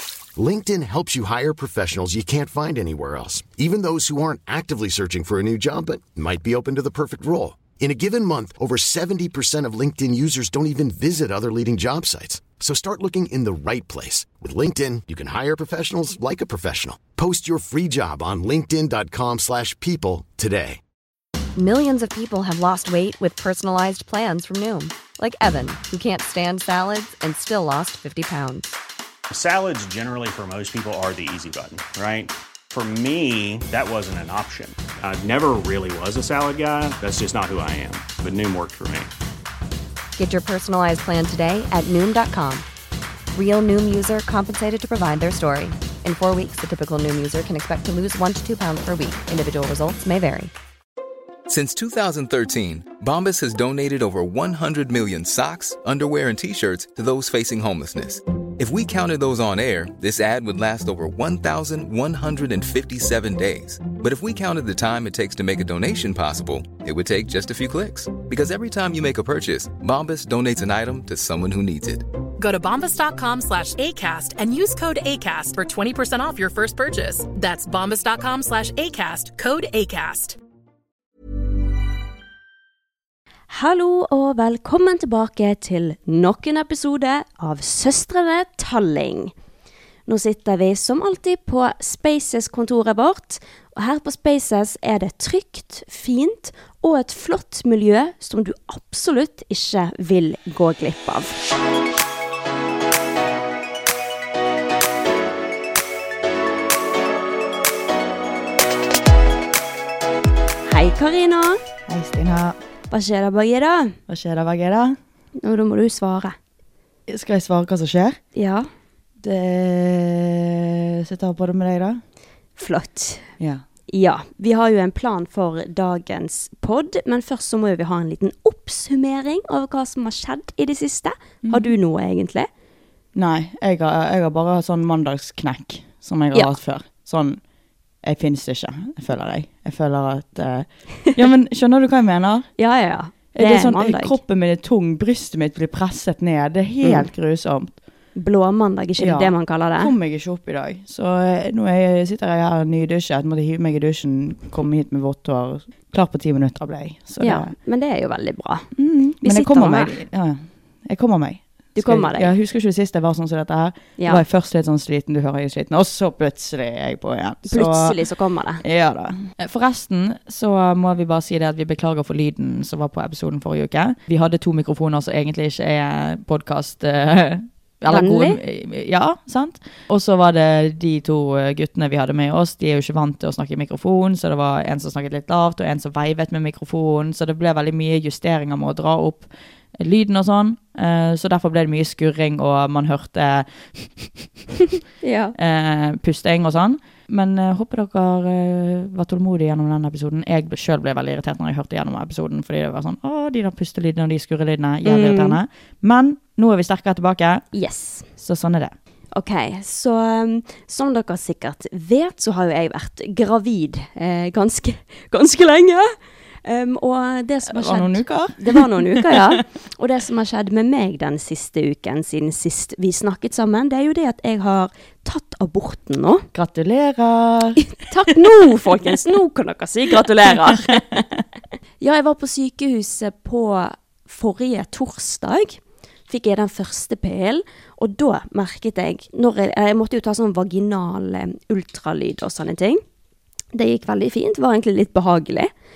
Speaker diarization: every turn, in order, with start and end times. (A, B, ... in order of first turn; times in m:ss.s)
0:00.4-0:20.8 A
0:21.5-0:28.7 B
0:29.3-0:39.1 C
0:40.2-0:42.6 B
0:43.3-0:50.5 B
0:51.5-1:12.0 D
1:12.4-1:20.4 E
1:23.5-1:29.3 F
1:30.1-1:41.4 F
1:50.7-1:51.6 F
1:51.9-1:52.6 G
1:52.9-1:54.0 F
1:54.1-1:55.0 G
1:55.4-1:56.4 F
1:57.1-1:58.2 G
1:58.3-1:58.7 F
1:59.2-2:02.0 G
2:02.6-2:03.3 F
2:03.4-2:03.6 G
2:03.9-2:12.5 F
2:11.4-2:11.7 G
2:13.1-2:17.4 G
2:18.0-2:22.5 G
2:22.6-2:24.2 F
2:23.3-2:27.8 G
2:26.8-2:27.1 F
2:28.2-2:29.9 F
2:29.0-2:37.5 G
2:37.2-2:38.7 F
2:38.8-2:48.0 G
2:39.2-2:40.0 F
2:41.8-2:42.3 F
2:44.0-2:44.2 F
2:47.5-2:48.6 F
2:48.6-3:14.3 G
2:57.9-2:58.4 F
3:15.0-3:15.3 F
3:15.3-3:27.5 G
3:24.8-3:25.4 F
3:27.5-3:28.1 F
3:28.2-3:28.7 G
3:29.1-3:35.9 F
3:36.4-3:46.3 F
3:37.5-3:39.4 G
3:46.3-3:47.6 G
3:47.6-3:50.8 F
3:50.4-3:51.0 G
3:51.8-4:02.8 F
4:03.5-4:05.5 F